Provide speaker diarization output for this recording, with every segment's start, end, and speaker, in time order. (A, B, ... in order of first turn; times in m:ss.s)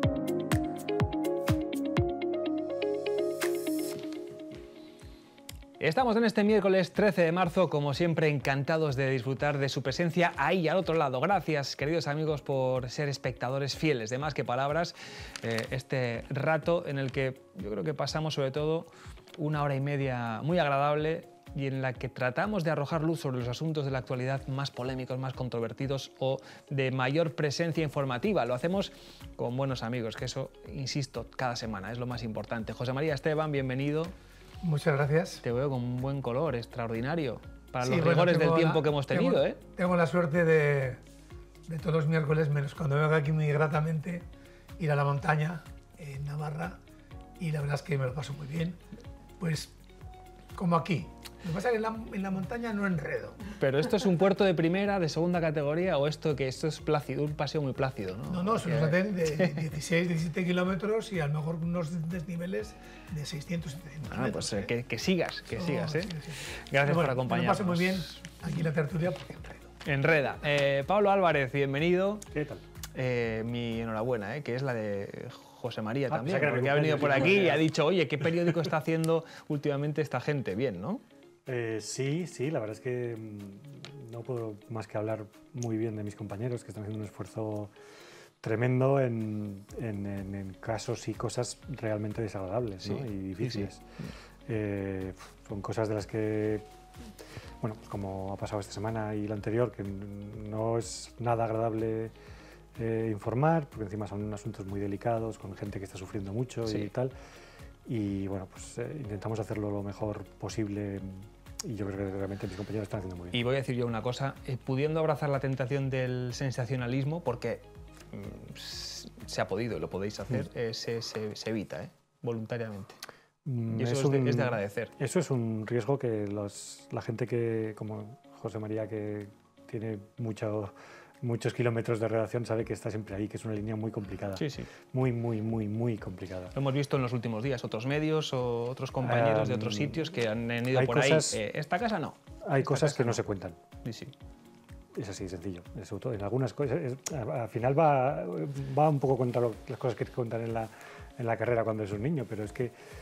0:05.8-0:34.1 A
0:34.6-0:35.4 B
0:35.4-0:39.6 A
0:37.8-0:41.0 B
0:41.7-0:44.2 B
0:44.8-0:46.8 B
0:47.4-0:48.8 B
0:49.4-0:49.7 B
0:50.5-0:53.4 B
0:53.6-0:59.6 A
0:58.3-1:04.7 B
1:04.0-1:08.3 A
1:05.5-1:09.7 B
1:09.8-1:12.2 A
1:12.3-1:12.6 C
1:12.9-1:21.0 A
1:16.1-1:17.7 C
1:21.4-1:27.7 C
1:28.4-1:33.8 C
1:32.8-1:34.1 A
1:34.4-1:36.6 C
1:37.6-1:42.1 C
1:42.8-1:47.1 C
1:46.6-1:46.9 A
1:47.8-1:53.4 C
1:53.3-2:03.0 A
2:03.4-2:16.5 C
2:03.7-2:04.9 A
2:14.4-2:14.7 A
2:16.5-2:23.2 A
2:19.0-2:20.1 C
2:20.7-2:21.4 C
2:22.4-2:23.6 C
2:23.8-2:24.1 A
2:24.9-2:32.7 C